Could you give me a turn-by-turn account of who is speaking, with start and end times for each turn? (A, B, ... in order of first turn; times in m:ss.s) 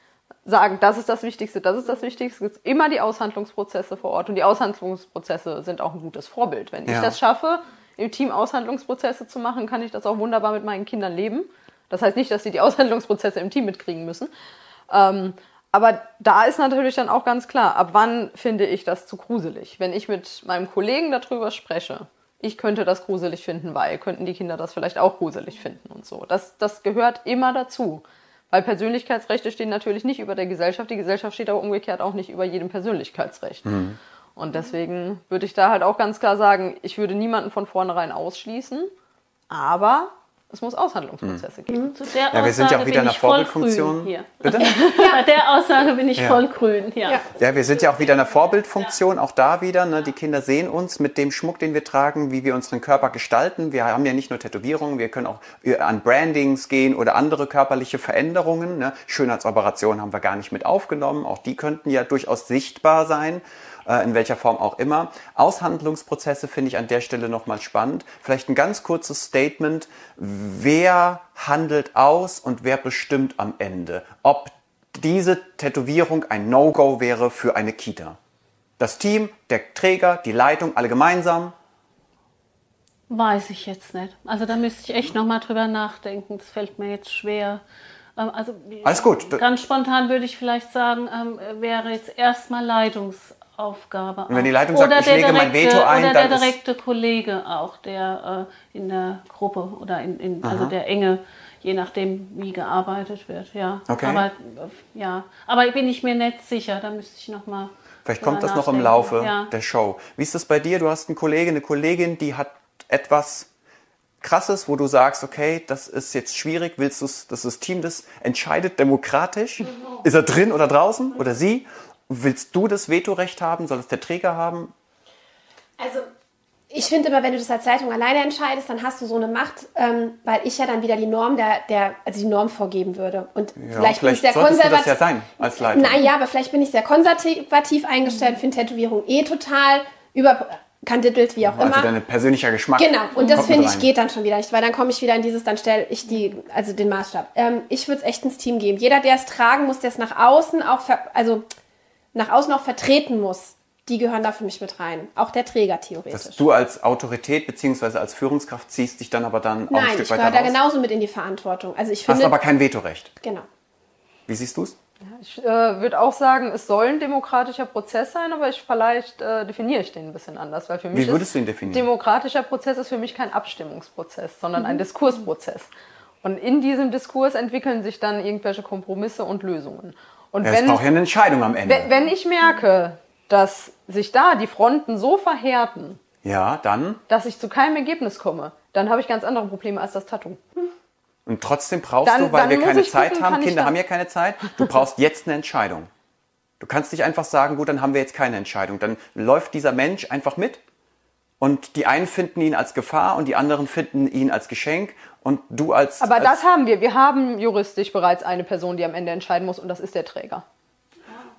0:00.4-0:14.3 A
0:06.8-0:07.2 B
0:14.9-0:33.7 A
0:33.6-0:34.0 B
0:34.4-0:38.9 A
0:39.5-0:41.9 A
0:41.9-0:47.3 C
0:42.3-0:44.8 B
0:44.6-0:45.1 A
0:44.9-0:45.2 D
0:46.2-0:46.4 B
0:47.3-1:18.2 B
1:18.8-1:21.5 B
1:23.1-1:27.6 C
1:28.2-1:49.5 C
1:28.8-1:29.4 B
1:34.3-1:36.5 B
1:40.4-1:40.7 B
1:43.9-1:44.2 B
1:48.0-1:53.5 B
1:54.2-2:04.7 B
2:05.8-2:06.0 D
2:06.7-2:21.9 D
2:13.6-2:16.1 B
2:21.4-2:23.9 B
2:22.8-2:31.4 D
2:32.1-2:36.4 D
2:36.1-2:40.5 B
2:39.7-2:42.4 D
2:42.1-2:43.1 B
2:43.2-2:43.4 D
2:44.3-2:44.7 B
2:45.0-2:55.7 A
2:50.9-2:51.9 B
2:56.2-3:00.8 A
3:00.4-3:01.9 B
3:01.6-3:06.0 A
3:06.2-3:07.0 B
3:07.1-3:10.4 A
3:11.2-3:15.9 B
3:12.0-3:13.7 A
3:16.6-3:20.6 B
3:21.4-3:26.4 B
3:26.0-3:30.4 A